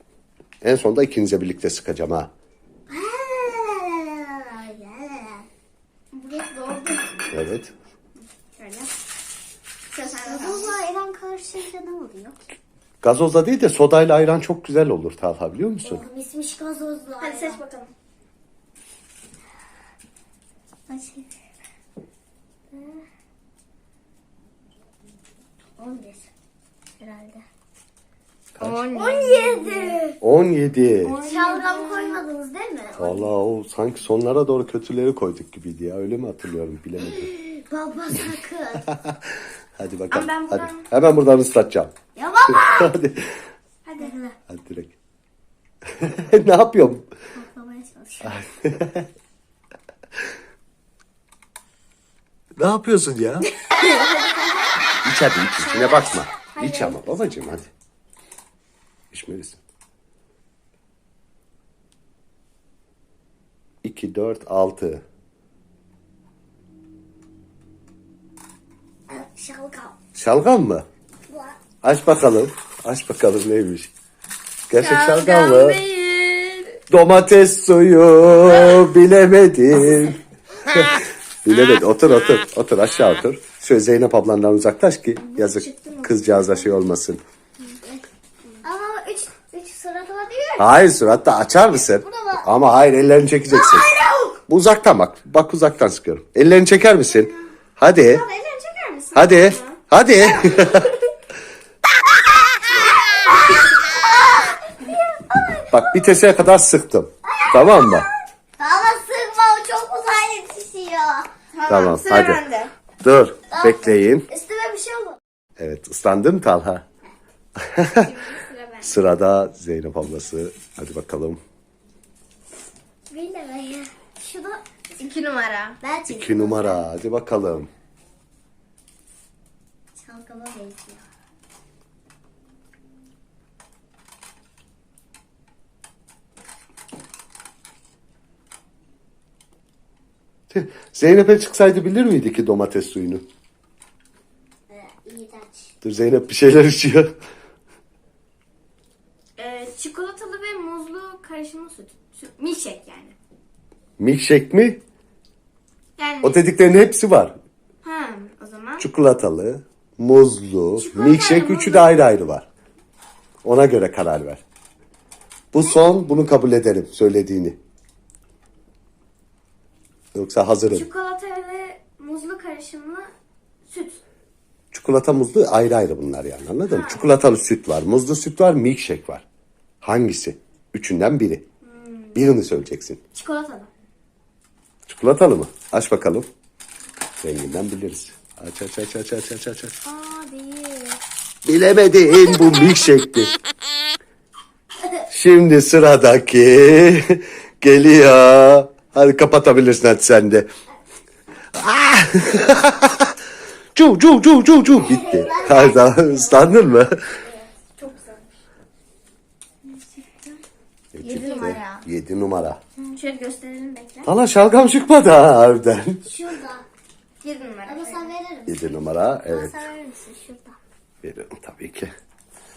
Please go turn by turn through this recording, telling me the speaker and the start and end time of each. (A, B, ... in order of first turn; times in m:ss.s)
0:00.6-0:02.3 A
0:02.9-0:05.5 B
0:06.1-0:07.2 C
0:07.3-0:07.7 A
0:08.6-0:08.9 C
0:09.9-0:10.7 C
0:10.0-0:12.4 B
0:13.0-0:16.0 A
0:15.8-0:17.6 B
0:17.2-0:17.9 C
0:20.9-0:21.3 B
0:22.7-0:23.0 B
0:25.8-0:26.3 B
0:27.0-0:27.4 B
0:28.6-0:28.8 A
0:28.6-0:30.0 C
0:28.9-0:30.2 B
0:30.2-0:31.2 A
0:31.0-0:32.2 C
0:31.2-0:33.3 B
0:33.0-0:37.3 A
0:37.0-0:38.9 B
0:38.9-0:39.2 A
0:39.8-0:41.9 A
0:40.1-0:40.9 C
0:42.1-0:43.0 B
0:42.5-0:43.3 A
0:43.8-0:44.1 C
0:44.0-0:44.4 B
0:44.5-0:44.9 A
0:45.9-0:47.0 A
0:47.3-0:48.4 B
0:48.2-0:49.1 A
0:52.6-0:53.5 A
0:53.6-0:54.6 C
0:55.0-0:57.7 A
0:55.6-0:57.0 C
0:59.1-0:59.6 A
1:03.8-1:05.0 A
1:09.1-1:10.0 B
1:10.1-1:10.8 A
1:11.3-1:11.6 B
1:11.8-1:13.9 A
1:14.7-1:15.8 A
1:14.8-1:16.8 C
1:16.9-1:27.2 A
1:25.3-1:26.8 C
1:28.6-1:30.7 B
1:30.6-1:33.9 A
1:31.8-1:32.5 B
1:33.5-1:34.4 C
1:34.5-1:38.2 A
1:38.0-1:39.8 C
1:39.1-1:41.0 A
1:42.7-1:44.8 B
1:44.8-1:45.7 C
1:45.7-1:48.1 A
1:47.2-1:51.3 B
1:51.5-1:52.7 C
1:51.7-1:52.4 A
1:53.0-1:54.2 A
1:53.5-1:55.2 B
1:55.6-1:56.8 A
1:57.6-1:58.2 A
1:58.0-1:58.9 C
1:58.8-2:01.4 A
2:03.1-2:04.6 B
2:05.0-2:05.8 C
2:05.8-2:06.8 B
2:06.1-2:07.7 A
2:09.9-2:11.1 B
2:20.5-2:23.2 A
2:24.7-2:25.7 B
2:25.8-2:27.1 A
2:29.4-2:33.2 C
2:34.0-2:34.8 A
2:36.0-2:36.4 C
2:36.2-2:37.4 A
2:37.8-2:38.9 C
2:38.8-2:42.5 A
2:40.8-2:41.9 C
2:43.4-2:44.4 A
2:45.5-2:47.6 A
2:50.1-2:50.9 A
2:50.7-2:53.1 C
2:53.6-2:54.0 C
2:54.7-2:59.2 A
2:56.7-2:57.1 C
2:59.8-3:01.4 A
3:01.6-3:02.3 C
3:02.1-3:03.0 A
3:03.1-3:03.7 C
3:04.9-3:06.3 A
3:07.2-3:09.7 A
3:09.8-3:10.3 C
3:10.0-3:11.0 B
3:11.4-3:13.3 A
3:15.1-3:20.5 A
3:21.5-3:23.1 A
3:23.7-3:27.0 A
3:24.7-3:26.6 B
3:24.9-3:25.7 C
3:27.2-3:28.2 C
3:29.6-3:30.4 C
3:30.9-3:32.6 A
3:31.0-3:31.9 C
3:32.9-3:34.1 C
3:34.0-3:36.0 A
3:36.0-3:36.6 B
3:37.2-3:38.1 C
3:37.6-3:40.6 B
3:38.5-3:39.7 A
3:41.0-3:41.9 A